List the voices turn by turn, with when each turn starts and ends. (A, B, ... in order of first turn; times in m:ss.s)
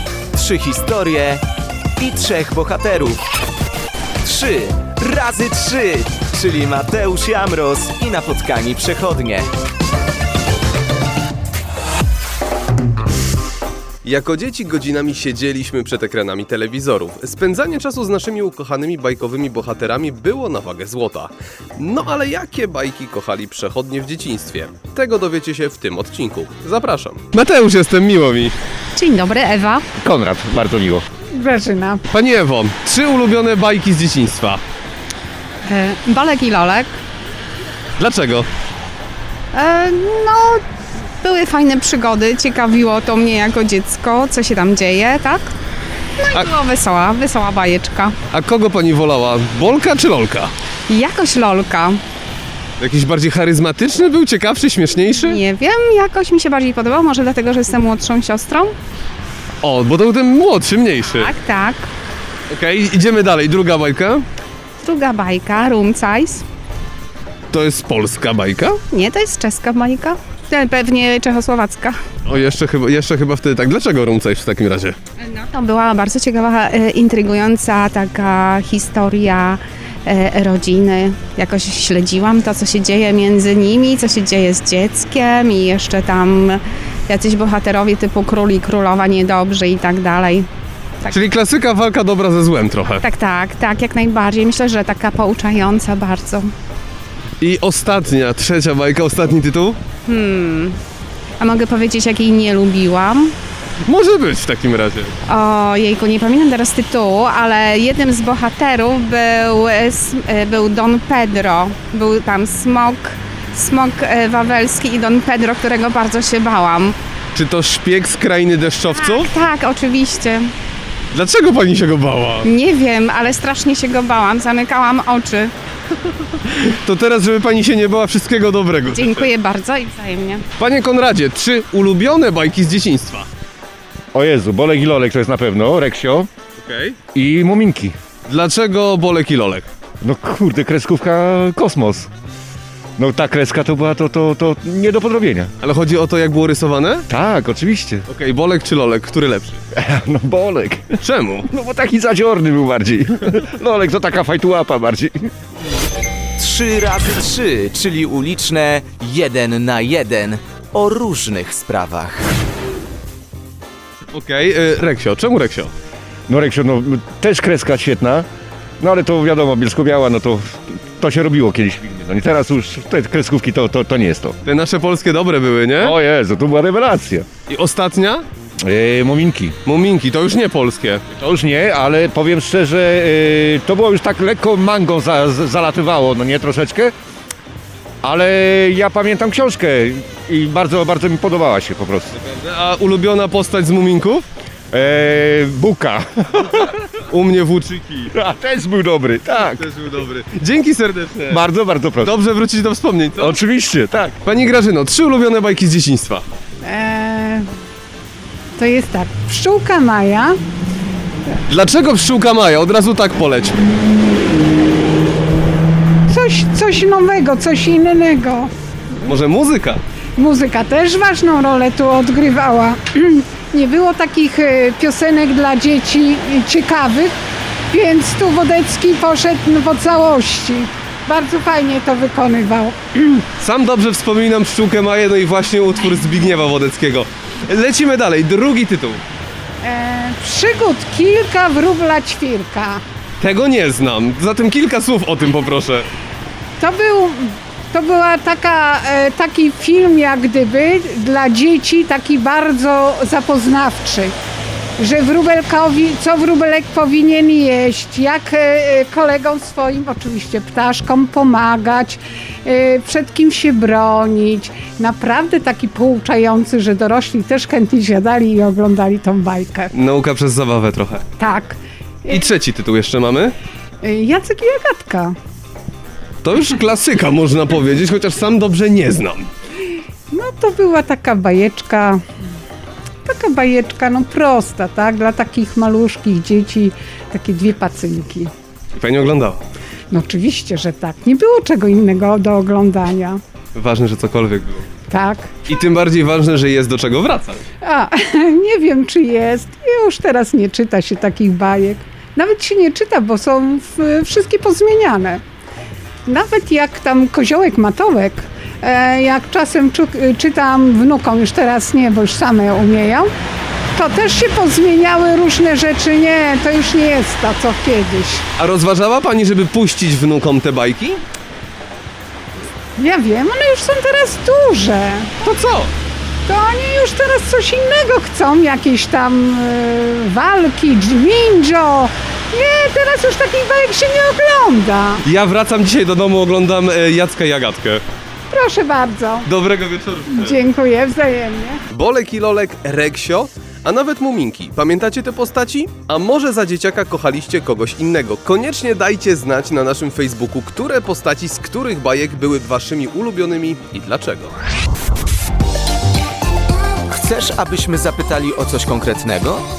0:00.3-0:01.4 A
0:02.0-0:03.2 A
0:04.2-0:09.5 A
0:14.0-0:28.5 B
0:29.0-0:29.9 C
0:30.0-0:31.0 D
0:31.3-0:32.1 E
0:32.1-0:34.6 B
0:35.6-0:37.0 C
0:38.0-0:38.5 B
0:39.5-0:40.6 C
0:41.2-0:45.5 C
0:46.2-0:48.2 C
0:48.3-0:50.5 B
0:50.9-0:52.0 C
0:52.8-0:55.4 B
0:55.2-0:58.8 C
0:59.6-1:01.3 B
1:01.0-1:01.9 C
1:02.5-1:04.2 B
1:04.8-1:06.4 C
1:07.5-1:08.8 B
1:08.9-1:12.0 C
1:12.3-1:15.0 B
1:15.2-1:30.5 C
1:31.1-1:33.0 B
1:32.9-1:36.5 C
1:37.4-1:39.8 B
1:40.1-1:40.8 C
1:41.4-1:43.4 C
1:43.8-1:45.2 B
1:45.3-1:57.0 C
1:57.3-1:59.3 B
1:58.9-2:00.5 C
2:01.1-2:02.5 B
2:02.4-2:05.5 C
2:06.3-2:09.3 B
2:08.9-2:10.4 C
2:10.6-2:13.3 B
2:14.1-2:16.3 D
2:16.6-2:17.0 B
2:17.1-2:18.0 D
2:18.3-2:19.7 B
2:20.0-2:22.1 D
2:23.0-2:25.5 D
2:25.6-2:27.1 B
2:27.1-2:28.0 D
2:28.1-2:29.6 B
2:29.7-2:35.3 D
2:31.0-2:31.5 B
2:36.4-2:42.3 A
2:44.1-2:45.7 B
2:46.3-2:48.3 D
2:48.8-2:54.4 D
2:54.4-2:56.0 B
2:55.8-2:57.3 D
2:57.5-2:58.3 B
2:58.6-2:59.6 D
2:59.6-3:01.1 B
3:01.1-3:06.9 D
3:08.0-3:12.2 D
3:12.1-3:14.3 B
3:14.7-3:16.6 D
3:17.1-3:18.1 B
3:18.1-3:19.6 D
3:19.5-3:21.4 B
3:21.3-3:22.1 D
3:22.0-3:23.4 B
3:23.2-3:24.2 D
3:24.2-3:26.2 B
3:26.6-3:27.5 E
3:28.6-3:30.4 E
3:31.5-3:33.6 B
3:36.1-3:38.5 E
3:39.0-3:39.8 B
3:40.2-3:47.2 E
3:47.7-3:53.3 E
3:53.4-3:59.0 B
3:59.6-4:02.8 E
4:03.2-4:05.9 B
4:06.6-4:14.2 E
4:14.8-4:29.7 E
4:29.7-4:31.1 B
4:31.2-4:32.2 E
4:32.1-4:33.4 B
4:33.8-4:35.2 E
4:36.2-4:39.3 B
4:40.1-4:42.0 E
4:43.0-4:48.3 E
4:48.8-4:49.4 B
4:49.9-4:53.2 E
4:53.6-4:54.7 B
4:54.9-4:55.4 E
4:55.5-4:57.4 B
4:57.6-5:05.2 E
5:06.1-5:13.1 E
5:13.7-5:18.3 E
5:18.4-5:21.0 B
5:22.8-5:25.2 E
5:25.2-5:25.7 B
5:26.3-5:35.0 E
5:35.0-5:37.8 B
5:38.3-5:39.3 E
5:39.3-5:40.4 B
5:40.1-5:41.6 E
5:41.7-5:54.4 B
5:56.9-5:59.4 A